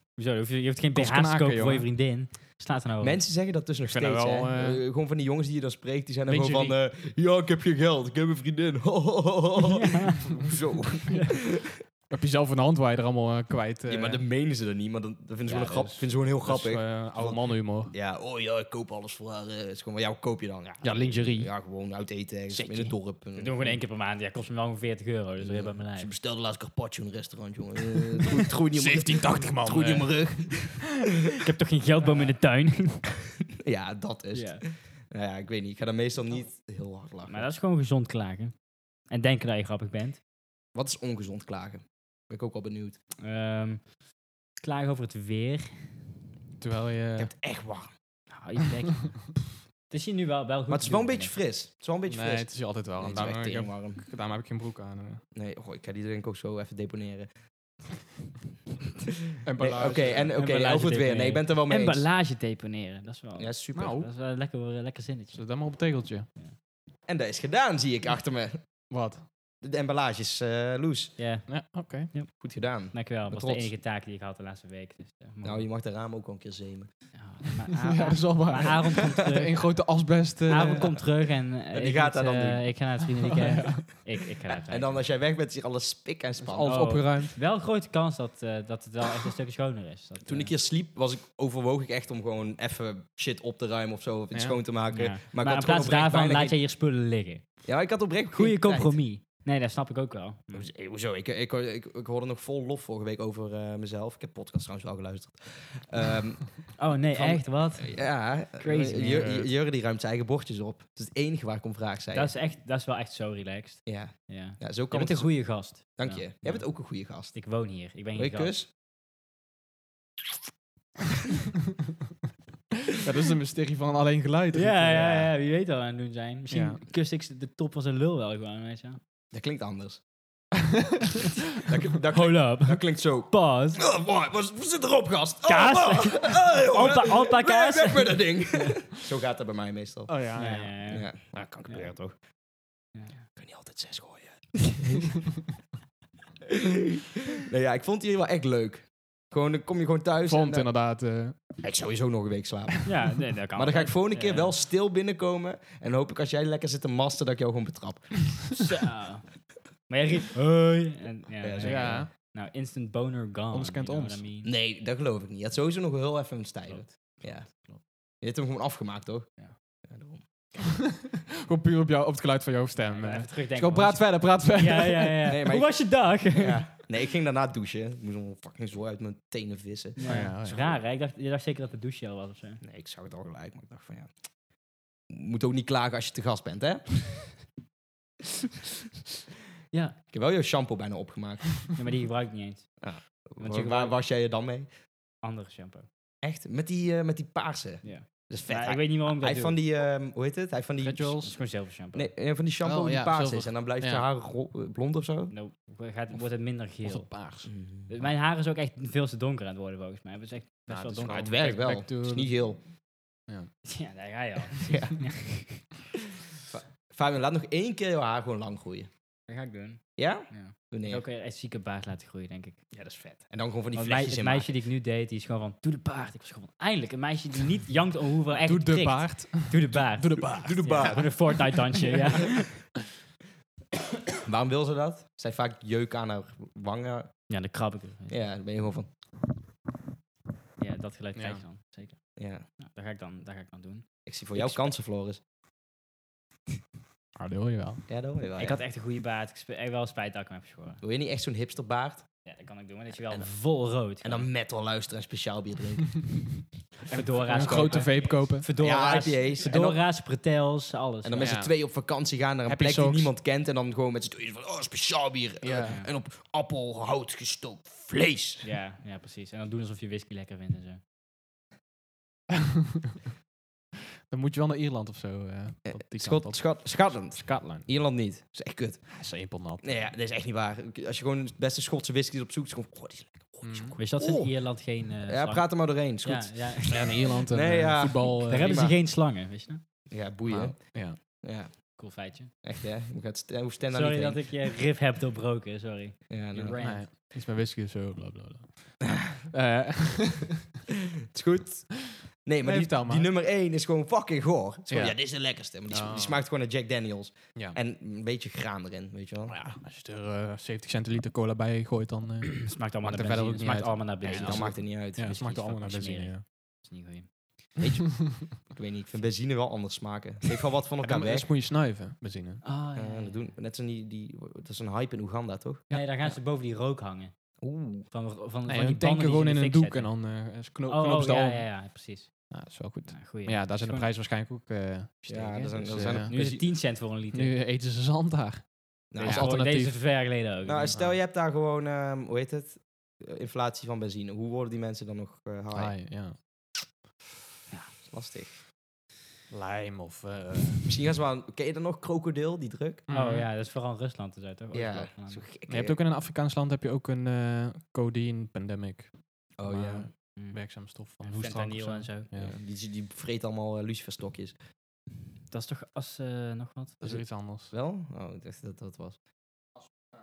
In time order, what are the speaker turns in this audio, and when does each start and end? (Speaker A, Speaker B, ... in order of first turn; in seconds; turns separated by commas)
Speaker A: 0.2-3.2, Speaker B: 0.9-1.9, Speaker C: 3.0-11.8, Speaker B: 3.9-4.8, Speaker B: 6.3-6.8, Speaker A: 9.7-10.2, Speaker B: 12.1-14.2, Speaker C: 13.9-23.8, Speaker A: 15.5-15.9, Speaker B: 15.5-17.9, Speaker B: 20.8-21.5, Speaker B: 22.5-22.9, Speaker A: 23.4-26.1, Speaker C: 25.4-31.0, Speaker B: 28.7-30.1, Speaker A: 31.4-33.1, Speaker C: 33.5-37.5, Speaker A: 34.3-34.6, Speaker A: 37.3-38.6, Speaker A: 39.1-40.2, Speaker C: 40.7-43.0, Speaker A: 43.2-43.9, Speaker A: 44.6-46.0, Speaker B: 46.6-47.3, Speaker C: 47.2-47.9, Speaker A: 48.3-49.3, Speaker A: 49.9-51.3, Speaker C: 50.7-54.0, Speaker B: 52.1-55.2, Speaker C: 55.4-57.3, Speaker B: 59.4-60.3, Speaker C: 59.6-62.0, Speaker A: 60.3-65.4, Speaker C: 63.4-64.0, Speaker B: 63.8-64.1, Speaker B: 65.3-66.3, Speaker C: 67.1-68.6, Speaker B: 68.9-69.3, Speaker C: 69.6-71.2, Speaker A: 71.2-72.3, Speaker B: 71.5-72.1, Speaker C: 72.4-73.7, Speaker A: 72.9-75.7, Speaker C: 75.4-76.9, Speaker A: 77.2-79.7, Speaker B: 77.8-80.9, Speaker A: 80.5-85.0, Speaker C: 81.7-82.7, Speaker B: 83.4-83.8, Speaker C: 84.7-86.9, Speaker B: 86.4-87.3, Speaker A: 86.7-90.5, Speaker C: 90.2-96.6, Speaker A: 94.9-97.5, Speaker C: 97.7-99.0, Speaker A: 98.3-100.7, Speaker C: 100.5-112.3, Speaker A: 106.8-109.4, Speaker B: 109.2-109.5, Speaker A: 112.1-118.5, Speaker C: 113.9-117.4, Speaker C: 118.1-118.7, Speaker B: 122.9-125.2, Speaker A: 124.5-129.0, Speaker B: 126.5-126.8, Speaker C: 129.3-130.0, Speaker C: 131.6-140.1, Speaker A: 132.1-133.8, Speaker A: 135.4-138.2, Speaker B: 140.1-140.8, Speaker A: 140.4-141.1, Speaker C: 140.9-142.1, Speaker A: 142.9-143.2, Speaker C: 143.3-145.1, Speaker C: 146.5-150.7, Speaker B: 150.3-151.6, Speaker C: 151.6-158.5, Speaker A: 152.8-154.5, Speaker A: 158.6-164.5, Speaker C: 161.4-162.1, Speaker B: 161.6-162.1, Speaker B: 163.5-164.2, Speaker C: 164.4-167.7, Speaker A: 166.7-167.8, Speaker C: 168.2-169.3, Speaker C: 169.8-170.6, Speaker B: 171.4-175.3, Speaker A: 172.8-176.7, Speaker C: 175.3-180.2, Speaker A: 180.0-182.6, Speaker B: 180.1-180.7, Speaker C: 182.6-184.1, Speaker C: 185.1-187.3, Speaker A: 189.7-190.0, Speaker C: 190.1-191.7, Speaker A: 191.7-192.8, Speaker C: 192.8-194.7, Speaker A: 193.4-194.0, Speaker A: 195.2-195.9, Speaker C: 196.2-201.2, Speaker A: 197.8-199.6, Speaker B: 200.8-201.3, Speaker A: 201.2-202.1, Speaker C: 201.9-205.3, Speaker B: 202.6-204.1, Speaker A: 205.3-207.1, Speaker B: 206.8-207.5, Speaker C: 207.5-207.9, Speaker A: 207.9-211.6, Speaker B: 210.7-212.5, Speaker C: 211.1-212.6, Speaker A: 213.7-215.6, Speaker C: 214.6-215.0, Speaker C: 216.5-218.9, Speaker A: 219.3-222.6, Speaker C: 220.0-221.0, Speaker C: 222.7-224.6, Speaker A: 223.7-232.6, Speaker B: 228.4-231.5, Speaker C: 230.2-231.1, Speaker C: 234.2-237.1, Speaker A: 237.3-238.2, Speaker C: 238.1-238.9, Speaker A: 240.6-242.0, Speaker B: 241.2-241.4, Speaker C: 242.2-242.4, Speaker A: 242.6-244.7, Speaker C: 244.1-245.2, Speaker B: 247.2-247.8, Speaker C: 247.9-248.6, Speaker A: 248.4-250.8, Speaker C: 250.8-252.1, Speaker A: 252.2-254.3, Speaker C: 254.0-256.3, Speaker A: 256.9-261.4, Speaker B: 256.9-258.5, Speaker C: 257.4-257.9, Speaker C: 258.6-259.8, Speaker C: 261.0-268.5, Speaker B: 261.2-261.7, Speaker B: 262.5-263.1, Speaker B: 265.4-265.8, Speaker A: 268.4-270.8, Speaker B: 274.1-277.7, Speaker C: 275.7-279.0, Speaker B: 278.9-279.8, Speaker C: 279.6-284.3, Speaker B: 283.4-283.8, Speaker A: 283.8-287.0, Speaker C: 285.1-286.6, Speaker B: 286.7-288.6, Speaker C: 287.3-288.8, Speaker A: 288.3-289.6, Speaker C: 289.9-291.8, Speaker B: 290.3-291.0, Speaker A: 291.8-292.3, Speaker C: 292.4-294.2, Speaker A: 293.7-296.9, Speaker C: 296.1-296.6, Speaker B: 296.6-300.4, Speaker C: 301.1-309.4, Speaker B: 302.4-303.1, Speaker B: 304.7-306.2, Speaker B: 309.3-316.2, Speaker A: 312.4-314.6, Speaker C: 314.0-315.6, Speaker A: 315.2-317.1, Speaker C: 317.6-321.3, Speaker B: 320.8-322.4, Speaker A: 322.4-323.3, Speaker C: 322.8-325.6, Speaker B: 325.7-326.1, Speaker A: 325.7-327.1, Speaker C: 327.4-327.9, Speaker A: 327.9-329.9, Speaker B: 328.5-331.5, Speaker A: 330.7-332.1, Speaker B: 332.3-336.1, Speaker A: 332.9-333.9, Speaker C: 335.1-336.4, Speaker A: 336.1-337.3, Speaker B: 337.1-339.8, Speaker C: 338.9-339.3, Speaker A: 339.0-340.8, Speaker C: 340.5-345.8, Speaker B: 345.5-346.2, Speaker C: 347.9-348.3, Speaker B: 349.3-350.7, Speaker C: 350.7-352.9, Speaker B: 352.9-353.3, Speaker A: 352.9-355.2, Speaker C: 354.5-355.8, Speaker B: 355.5-362.4, Speaker C: 359.4-359.9, Speaker A: 360.2-362.1, Speaker C: 362.2-364.4, Speaker A: 365.3-366.8, Speaker B: 366.8-367.5, Speaker C: 366.8-369.0